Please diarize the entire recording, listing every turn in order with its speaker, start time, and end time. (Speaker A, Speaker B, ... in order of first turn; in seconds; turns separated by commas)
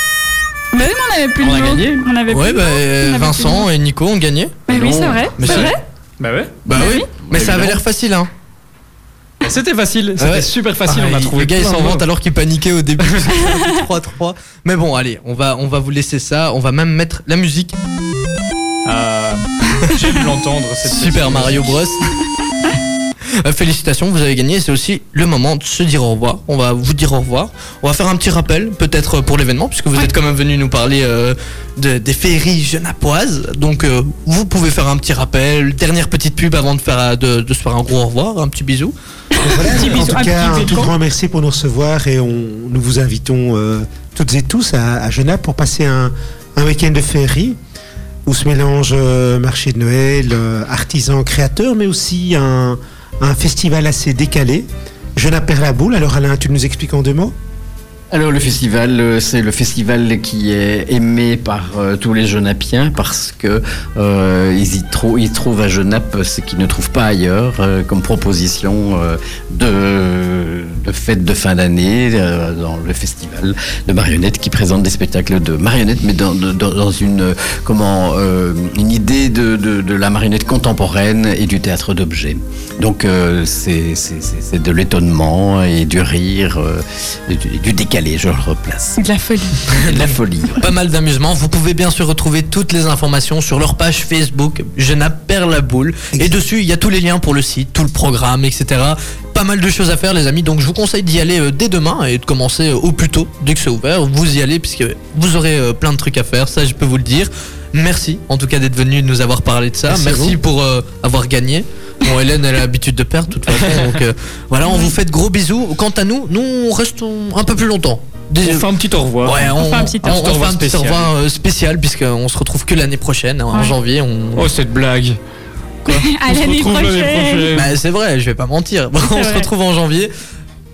Speaker A: 0.7-3.7, Speaker B: 1.4-2.0, Speaker C: 2.3-4.6, Speaker D: 4.7-5.3, Speaker A: 4.7-5.8, Speaker C: 5.4-5.7, Speaker B: 5.4-6.6, Speaker C: 6.7-8.3, Speaker A: 6.7-7.1, Speaker B: 7.3-7.8, Speaker D: 7.3-7.6, Speaker B: 9.4-12.1, Speaker C: 10.2-17.8, Speaker B: 18.9-21.8, Speaker C: 20.9-22.1, Speaker C: 23.4-38.9, Speaker A: 39.4-40.9, Speaker E: 39.4-47.6, Speaker E: 48.3-57.3, Speaker D: 58.1-89.0, Speaker A: 89.0-89.8, Speaker D: 89.7-90.7, Speaker C: 89.8-118.7, Speaker B: 109.9-110.3, Speaker B: 113.5-114.0, Speaker A: 114.7-115.0, Speaker B: 118.4-121.1, Speaker C: 119.2-124.5, Speaker A: 119.5-120.2, Speaker B: 124.3-125.2, Speaker B: 125.9-127.8, Speaker A: 125.9-127.5, Speaker C: 127.5-130.1, Speaker A: 129.1-129.5